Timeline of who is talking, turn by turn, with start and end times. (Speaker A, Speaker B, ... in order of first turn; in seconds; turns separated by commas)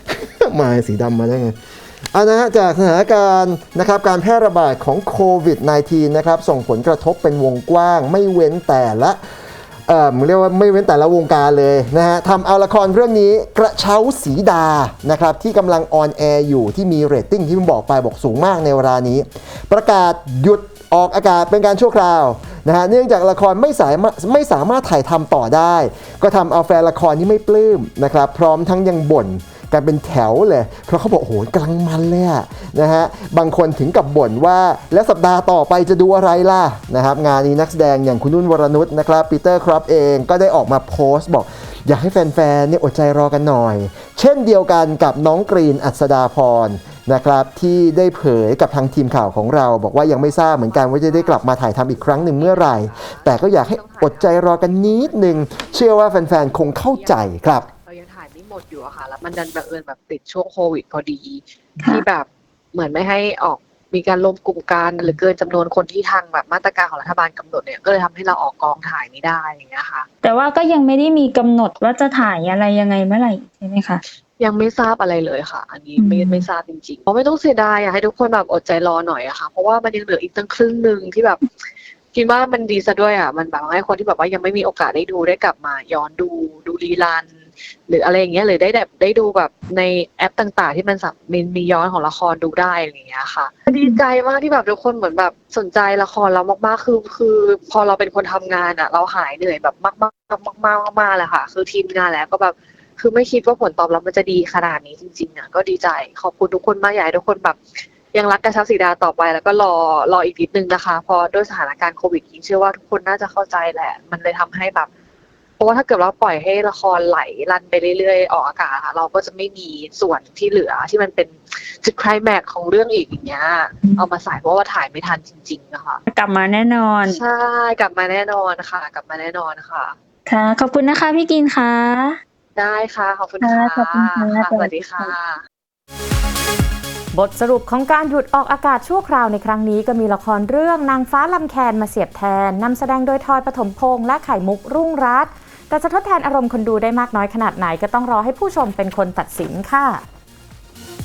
Speaker A: 0.2-1.6, Speaker A: 2.1-9.2, Speaker A: 9.9-57.7, Speaker B: 50.3-56.0, Speaker B: 56.5-57.2, Speaker B: 57.8-70.1, Speaker C: 70.2-74.0, Speaker B: 74.4-81.4, Speaker C: 76.0-76.4, Speaker B: 82.1-87.3, Speaker B: 87.9-107.6, Speaker B: 108.1-114.9, Speaker B: 115.6-126.0, Speaker C: 126.1-127.2, Speaker B: 127.1-129.9, Speaker C: 130.3-132.2, Speaker B: 132.6-135.4, Speaker C: 133.4-135.1, Speaker D: 137.1-150.0